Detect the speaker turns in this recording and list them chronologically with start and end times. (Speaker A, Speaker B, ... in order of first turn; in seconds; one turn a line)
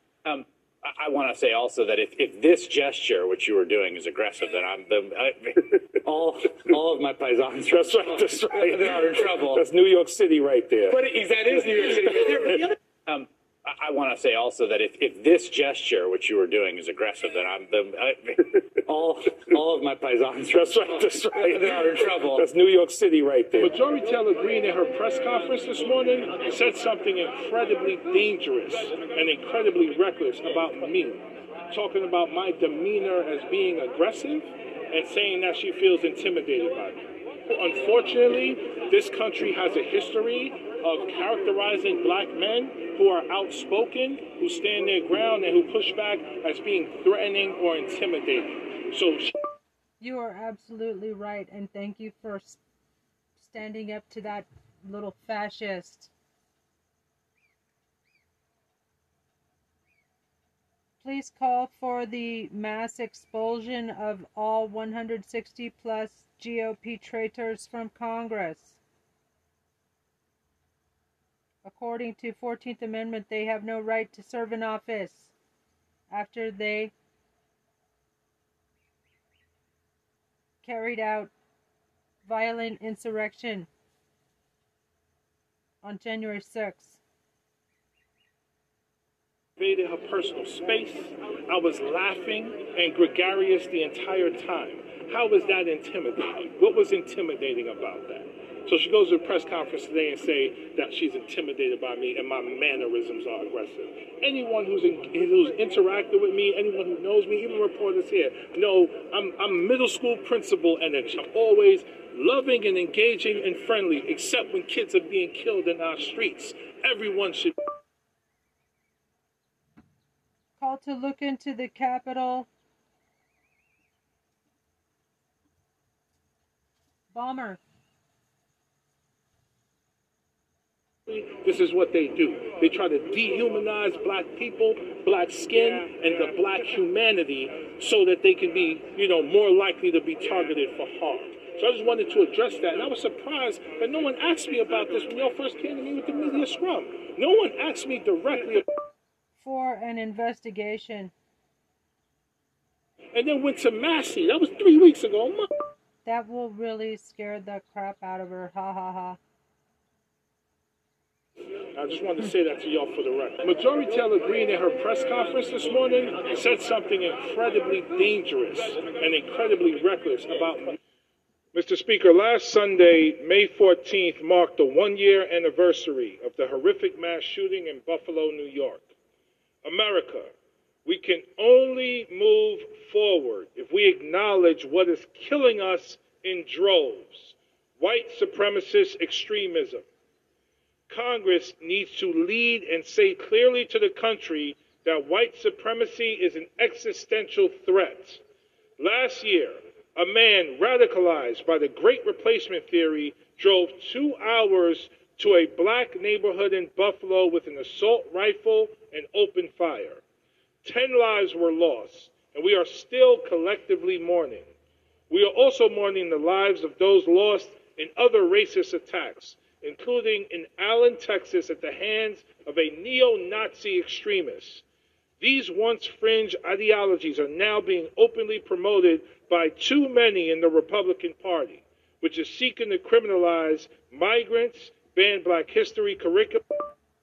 Speaker A: 0.2-9.7
Speaker B: 7.7-11.0
Speaker A: 10.9-23.7
Speaker B: 20.5-49.3
Speaker C: 50.0-52.6
Speaker C: 53.4-56.1
Speaker C: 61.0-68.8
Speaker C: 71.6-75.3
Speaker C: 76.1-76.9
Speaker C: 80.6-81.3
Speaker C: 82.2-83.7
Speaker C: 85.8-87.0
Speaker B: 89.6-117.5
Speaker C: 120.6-122.5
Speaker C: 127.1-127.6
Speaker B: 131.1-148.6
Speaker C: 149.4-151.1
Speaker B: 153.1-155.5
Speaker C: 156.1-159.2
Speaker B: 161.7-170.8
Speaker B: 171.5-178.9
Speaker B: 179.6-180.3
Speaker B: 180.9-189.8
Speaker B: 190.9-198.2
Speaker B: 198.8-210.0
Speaker B: 210.6-214.5
Speaker B: 215.1-224.6
Speaker B: 225.2-236.4